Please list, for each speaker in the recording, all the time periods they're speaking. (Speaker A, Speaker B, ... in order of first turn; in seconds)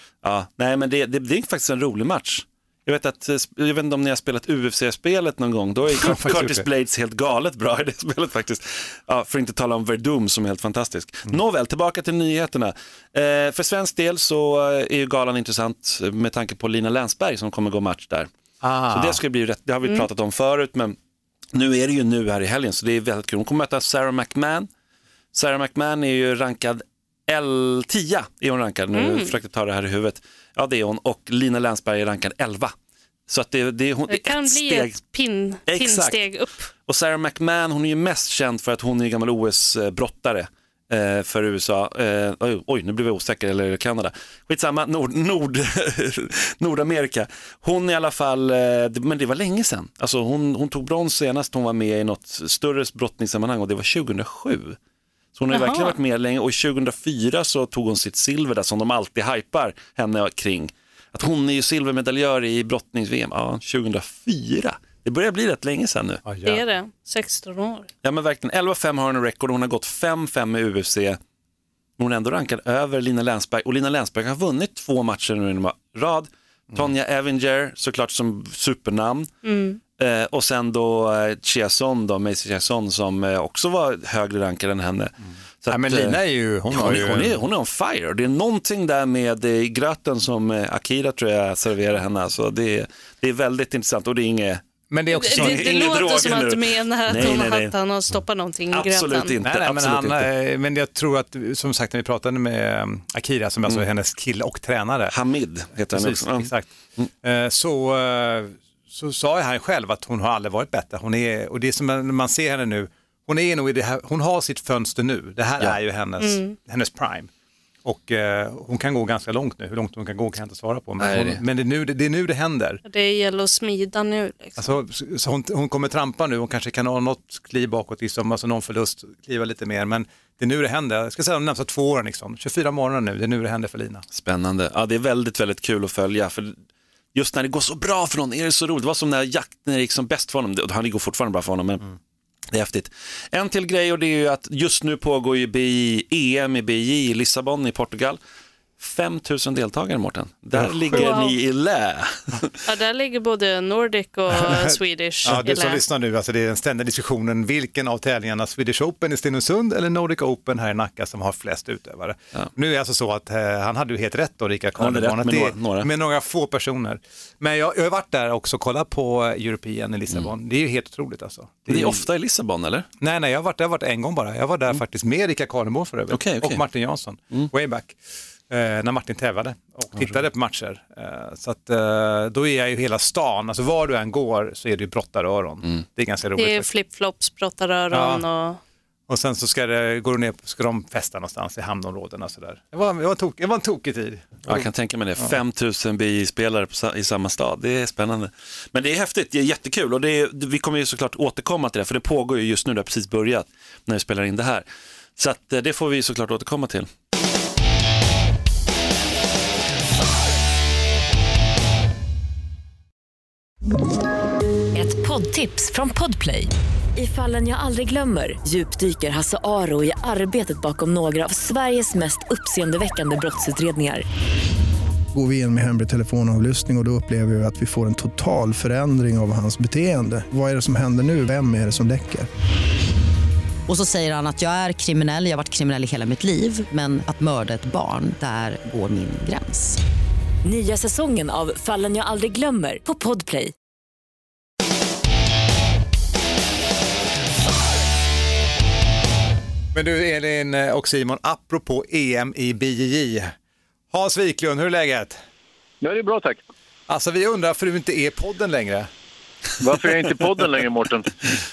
Speaker A: 0.2-18.3, 18.9-21.0, 21.5-24.7, 25.3-32.7, 33.3-35.0, 35.7-36.2, 36.9-54.8, 55.4-66.2, 68.0-71.2, 72.0-79.3, 80.0-86.2, 86.7-94.6, 95.3-97.7, 98.7-100.3, 105.1-107.1, 121.0-121.4, 134.1-136.6, 137.1-141.8, 142.5-148.2, 148.8-152.6, 164.8-165.9, 171.7-172.9, 176.1-176.6, 194.5-204.6, 205.2-206.9
Speaker B: 5.9-6.7, 18.6-19.2, 66.2-66.6, 85.7-87.4, 94.9-95.8, 99.4-105.1, 105.9-106.7, 107.2-117.3, 117.8-122.8, 124.6-134.0, 150.5-151.0, 154.3-154.7, 155.2-172.0, 173.0-178.0, 178.5-186.7, 187.9-188.2, 189.1-194.7, 249.7-253.3, 253.9-255.2, 256.9-258.9
Speaker C: 28.9-29.4, 34.1-36.7, 55.5-56.0, 66.4-67.9, 79.4-79.8, 95.1-99.3, 116.2-116.5, 122.8-124.6, 150.9-151.3, 152.6-155.8, 186.3-188.6
Speaker D: 214.8-216.5, 233.7-239.8
Speaker E: 216.9-224.0, 240.4-243.5
Speaker F: 225.1-232.3
Speaker G: 255.8-256.4, 259.6-261.1